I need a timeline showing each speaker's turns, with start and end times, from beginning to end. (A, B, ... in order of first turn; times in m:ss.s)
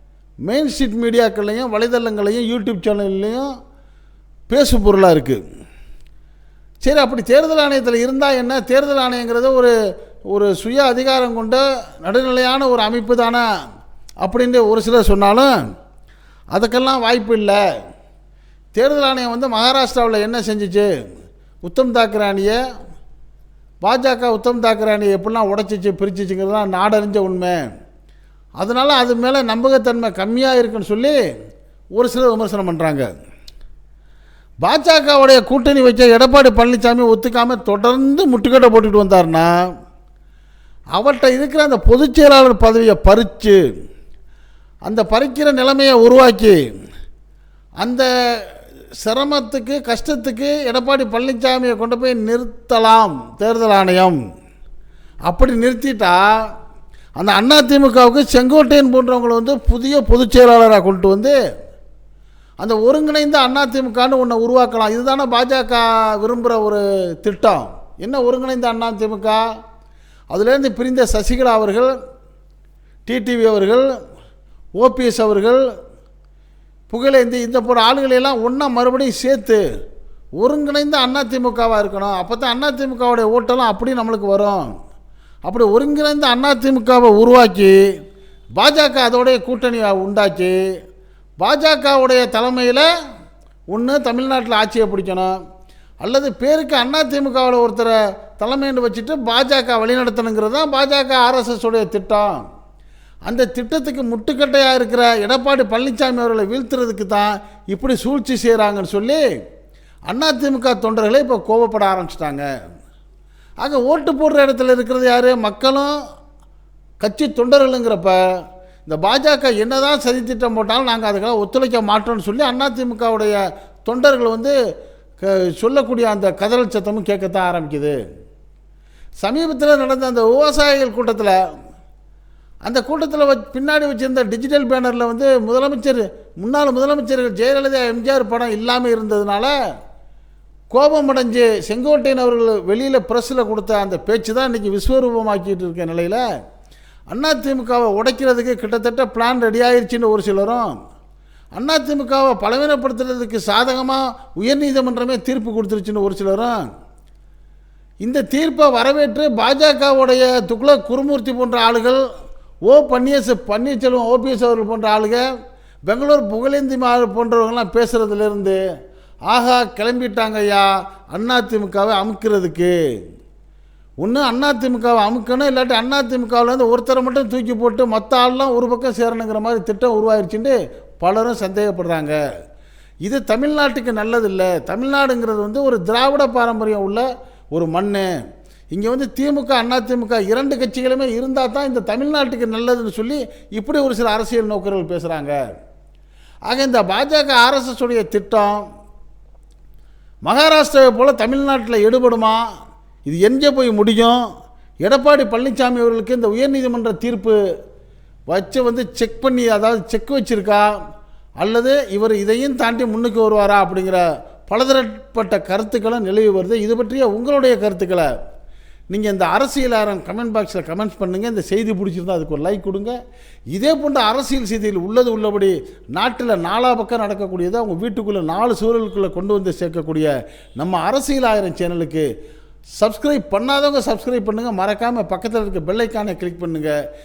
0:00.5-0:03.5 A
0:04.5-0:05.4 A
0:06.8-0:09.7 A
0:10.3-0:13.4 A
0:14.2-0:15.5 A
0:16.5-0:17.6 A
0:18.8-0:20.9 A
0:21.6-0:22.6 A
0:23.8-0:27.6 A
0:28.6-0:31.2 A
0:32.0-0:33.1 A
0:34.6-0:39.5 A
0:41.0-0:43.6 A
0:44.9-0:46.6 A
0:47.8-0:48.5 A
0:49.0-0:54.2 A
0:55.3-0:56.2 A
0:57.2-1:01.4 A
1:02.6-1:09.4 A
1:10.3-1:11.9 A
1:13.1-1:13.9 A
1:14.8-1:15.6 A
1:16.9-1:19.6 A
1:20.4-1:24.6 A
1:25.5-1:27.7 A
1:28.6-1:30.6 A
1:31.4-1:32.9 A
1:33.7-1:35.3 A
1:36.0-1:42.4 A
1:43.3-1:49.2 A
1:50.1-1:52.5 A
1:53.6-1:56.0 A
1:57.0-1:58.2 A
1:58.9-2:04.6 A
2:05.2-2:08.0 A
2:09.2-2:11.4 A
2:12.6-2:19.5 A
2:20.7-2:26.2 A
2:27.1-2:30.7 A
2:31.6-2:36.6 A
2:38.0-2:42.0 A
2:42.7-2:45.2 A
2:45.9-2:48.6 A
2:49.3-2:52.7 A
2:54.0-3:02.2 A
3:03.1-3:08.1 A
3:08.7-3:15.4 A
3:16.5-3:18.6 A
3:20.3-3:22.4 A
3:23.1-3:24.2 A
3:24.8-3:27.4 A
3:28.3-3:30.7 A
3:31.4-3:38.1 A
3:38.9-3:43.0 A
3:43.5-3:52.1 A
3:52.8-3:56.7 A